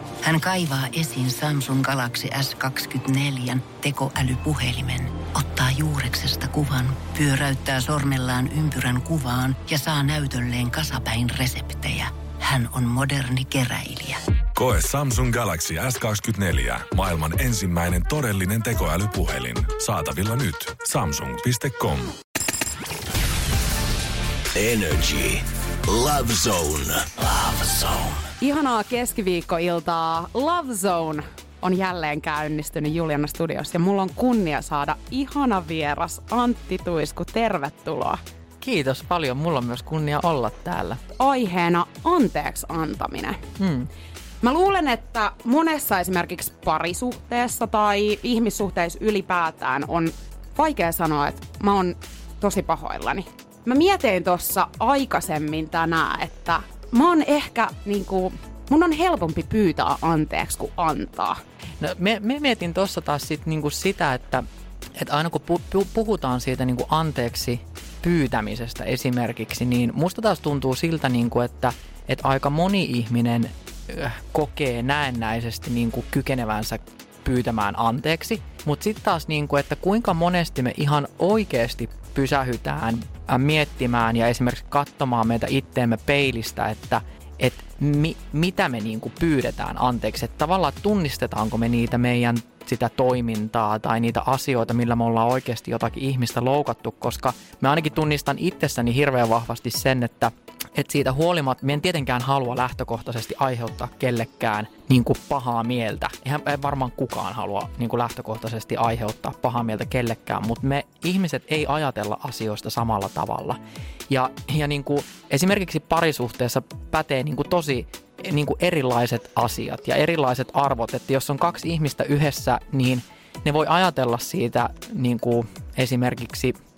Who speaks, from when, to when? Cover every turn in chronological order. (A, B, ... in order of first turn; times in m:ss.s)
0:00.2-0:14.2 A
0:14.6-0:22.1 B
0:24.5-0:28.2 C
0:28.4-0:38.2 D
0:38.6-0:41.0 E
0:41.2-0:43.4 D
0:43.6-0:43.9 E
0:44.4-1:01.4 D
1:01.8-2:06.6 E